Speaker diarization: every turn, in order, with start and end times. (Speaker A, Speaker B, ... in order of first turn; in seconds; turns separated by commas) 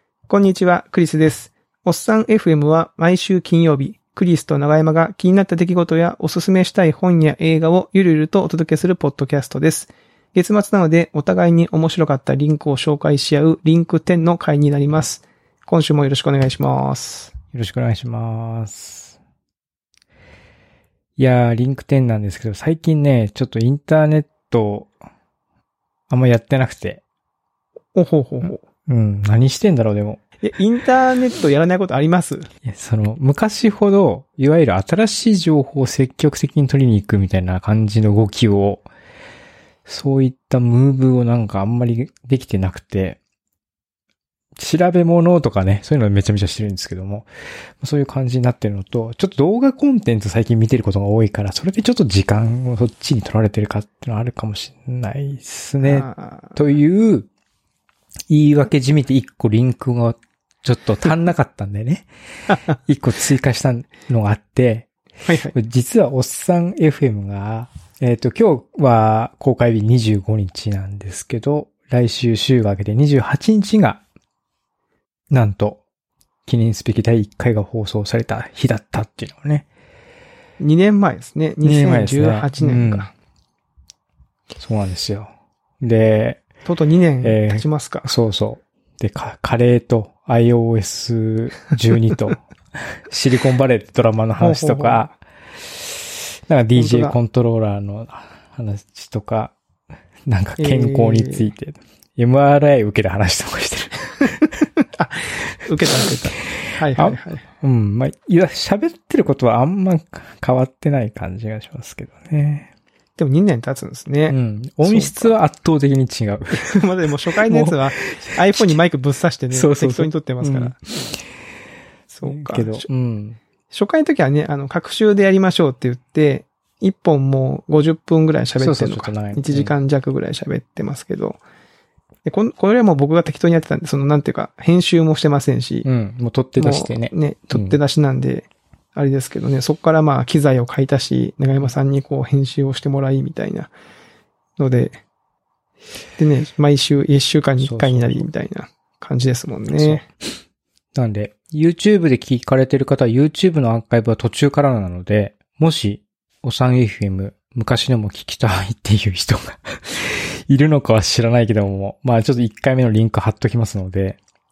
Speaker A: 0.3-17.3, Speaker B: 17.5-19.2, Speaker B: 21.2-24.9, Speaker B: 26.1-27.0, Speaker A: 27.9-28.6, Speaker B: 28.9-30.2, Speaker A: 30.4-32.5, Speaker B: 32.6-38.9, Speaker B: 39.9-43.2, Speaker B: 44.6-47.3, Speaker B: 47.8-57.3, Speaker A: 55.8-56.5, Speaker B: 58.3-62.1, Speaker B: 62.7-64.9, Speaker A: 65.3-65.5, Speaker B: 65.5-74.0, Speaker B: 75.3-75.8, Speaker B: 76.5-79.7, Speaker A: 80.6-83.1, Speaker B: 81.6-83.1, Speaker B: 84.6-86.4, Speaker A: 86.7-88.1, Speaker B: 87.2-95.2, Speaker A: 94.4-95.1, Speaker B: 95.8-99.5, Speaker A: 96.8-97.2, Speaker B: 100.3-104.6, Speaker A: 100.6-101.5, Speaker A: 104.9-107.4, Speaker B: 106.9-112.7, Speaker A: 113.2-115.3, Speaker B: 114.3-116.7, Speaker A: 116.5-120.8, Speaker B: 117.5-118.4, Speaker B: 119.5-121.1, Speaker A: 122.1-122.9, Speaker B: 122.2-123.4, Speaker A: 123.7-131.4, Speaker B: 128.6-129.7, Speaker A: 132.2-135.8, Speaker B: 135.8-137.8, Speaker A: 136.6-143.7, Speaker A: 144.6-145.0, Speaker A: 146.2-150.1, Speaker B: 147.6-148.2, Speaker B: 149.7-150.0, Speaker B: 150.9-164.2